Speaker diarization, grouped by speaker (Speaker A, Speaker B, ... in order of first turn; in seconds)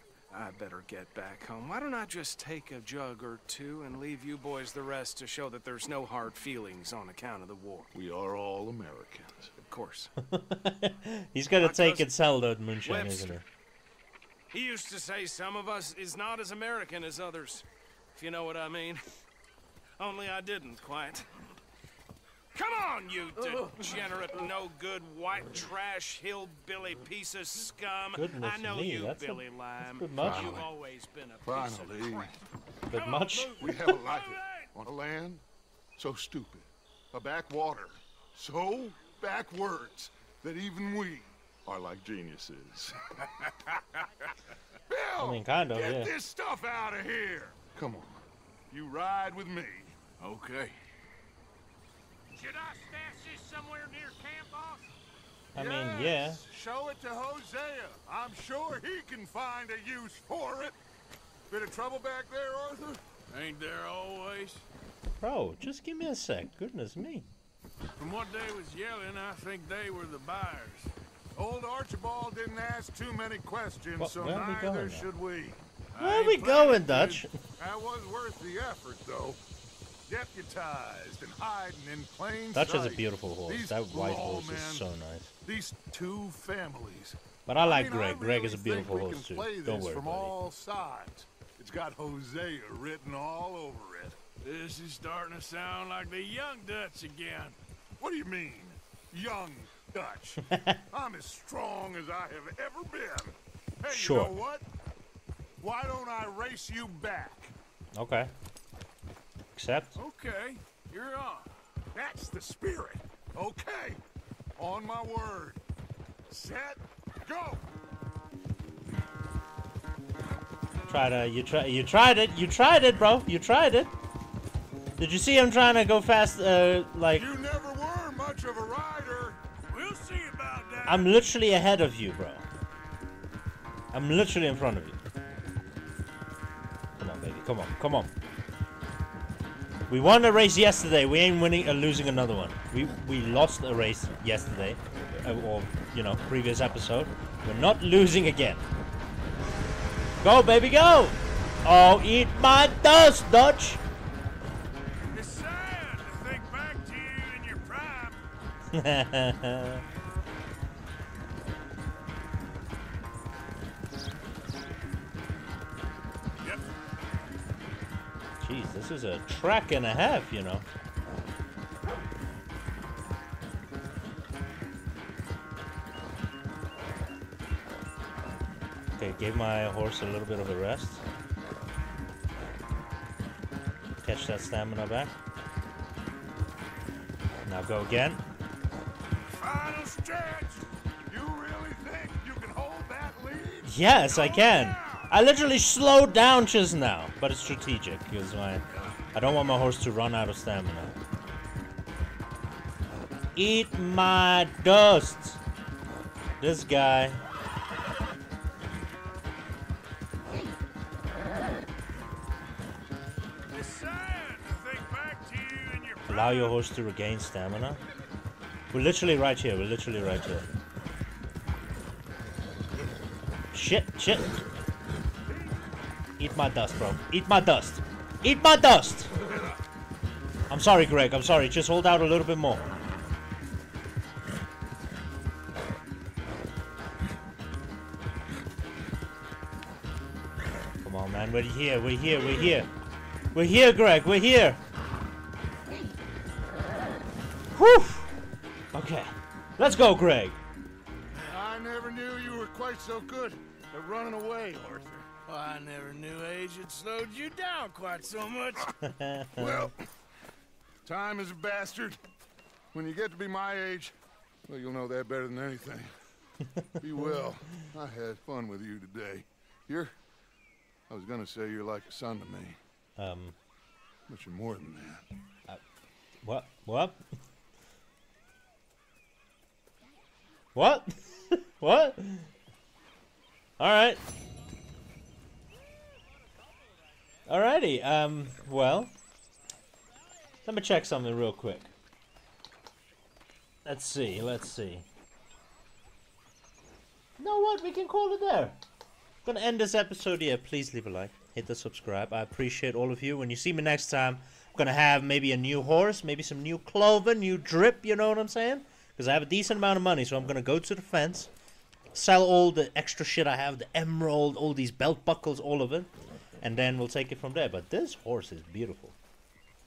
Speaker A: 0.3-7.9, 9.6-10.1, 11.5-12.1, 12.8-13.4, 14.5-19.0, 20.0-21.3, 22.5-32.4, 33.1-33.8
Speaker B: 7.9-9.5, 30.2-30.6, 31.4-32.3, 33.6-35.4, 36.0-43.8, 44.9-50.0, 55.5-60.8, 61.5-63.0, 71.3-75.6, 76.3-79.4, 80.1-84.9, 85.4-94.2, 98.0-104.7, 105.6-107.5, 111.9-114.0, 114.6-115.6, 116.3-117.6, 127.1-129.4, 191.1-193.8, 251.2-255.1, 259.4-259.7, 260.8-262.0, 262.7-263.9, 264.5-265.9, 266.8-269.9, 270.9-272.6, 274.1-275.1
Speaker C: 10.3-13.4, 28.1-30.6, 32.9-34.0, 45.2-46.1, 55.5-56.4, 65.2-67.3, 74.0-75.1, 76.0-77.3, 82.5-85.3, 87.5-90.3, 100.5-100.8, 103.9-104.3, 107.9-108.3, 109.5-110.0, 120.9-123.9, 125.0-127.3, 130.8-132.4, 133.9-135.0, 137.0-138.1, 139.9-148.6, 150.2-153.8, 158.7-159.8, 168.4-170.7, 179.0-181.0, 184.0-185.1, 187.4-188.2, 193.6-201.0, 203.3-205.4, 206.4-207.2, 216.1-217.8, 218.7-220.4, 223.5-224.4, 226.2-229.1, 230.5-232.7, 240.8-242.7, 243.3-244.6, 247.5-248.1, 248.7-250.4, 258.8-259.6, 273.0-273.4, 276.2-277.0, 280.5-282.3, 283.6-284.0, 287.3-288.9, 290.4-291.7, 293.6-294.9, 297.2-298.6, 299.2-311.3, 311.9-315.9, 316.4-318.9
Speaker D: 33.0-33.3, 33.9-34.7, 50.2-50.8, 63.3-64.6, 68.0-70.9, 76.0-76.7, 94.4-97.5, 109.9-111.5, 129.7-131.2, 155.1-158.2, 189.3-190.6, 194.1-195.1, 213.5-216.6, 255.3-258.7
Speaker E: 52.4-54.8